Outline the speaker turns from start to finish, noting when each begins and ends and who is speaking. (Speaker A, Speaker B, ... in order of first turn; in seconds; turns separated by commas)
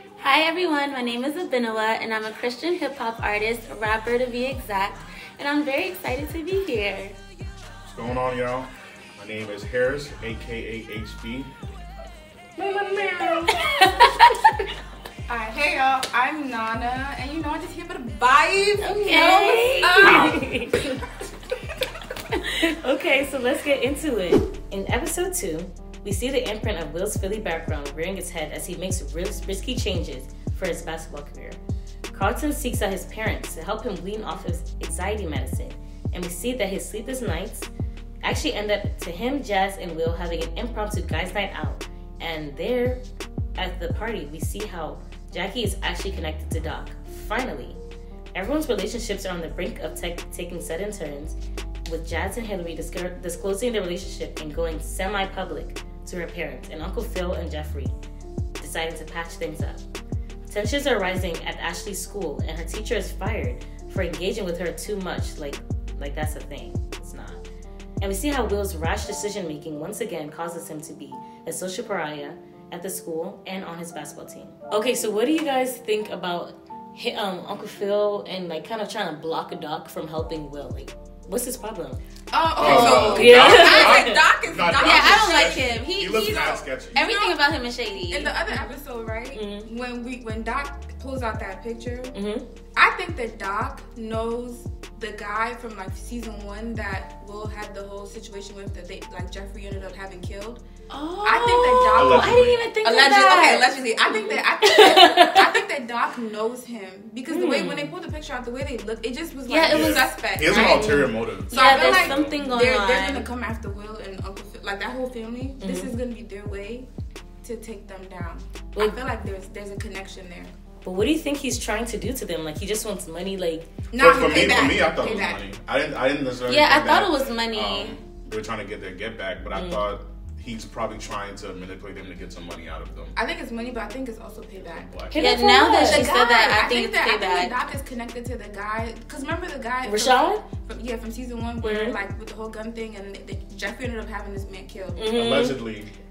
Speaker A: 0.2-7.2, Speaker B: 7.9-11.5, Speaker B: 12.6-13.5, Speaker C: 12.8-13.6, Speaker D: 13.6-14.1, Speaker C: 15.3-20.4, Speaker A: 18.8-20.2, Speaker D: 20.0-21.0, Speaker B: 20.0-20.4, Speaker D: 22.3-31.6, Speaker D: 32.1-37.7, Speaker D: 38.2-43.0, Speaker D: 43.5-47.8, Speaker D: 48.3-57.9, Speaker D: 58.6-59.8, Speaker D: 60.5-67.4, Speaker D: 68.0-82.0, Speaker C: 82.3-87.3, Speaker B: 82.6-87.0, Speaker D: 82.6-84.2, Speaker A: 84.7-88.3, Speaker C: 88.1-92.1, Speaker D: 88.5-88.7, Speaker D: 89.3-89.7, Speaker D: 92.1-92.4, Speaker C: 92.7-100.6, Speaker A: 100.9-104.4, Speaker C: 101.2-116.9, Speaker B: 102.0-102.6, Speaker D: 104.6-105.5, Speaker D: 107.3-107.9, Speaker A: 109.5-110.0, Speaker B: 109.7-112.3, Speaker A: 111.5-113.3, Speaker D: 115.6-115.9, Speaker C: 117.4-120.5, Speaker D: 120.8-123.7, Speaker C: 123.9-125.4, Speaker B: 124.0-133.2, Speaker A: 126.5-127.9, Speaker D: 129.5-129.8, Speaker C: 133.2-134.9, Speaker B: 134.7-135.4, Speaker D: 135.1-136.1, Speaker A: 135.2-137.5, Speaker C: 135.8-145.1, Speaker D: 139.8-140.4, Speaker D: 141.6-142.0, Speaker D: 145.0-145.6, Speaker B: 145.1-145.9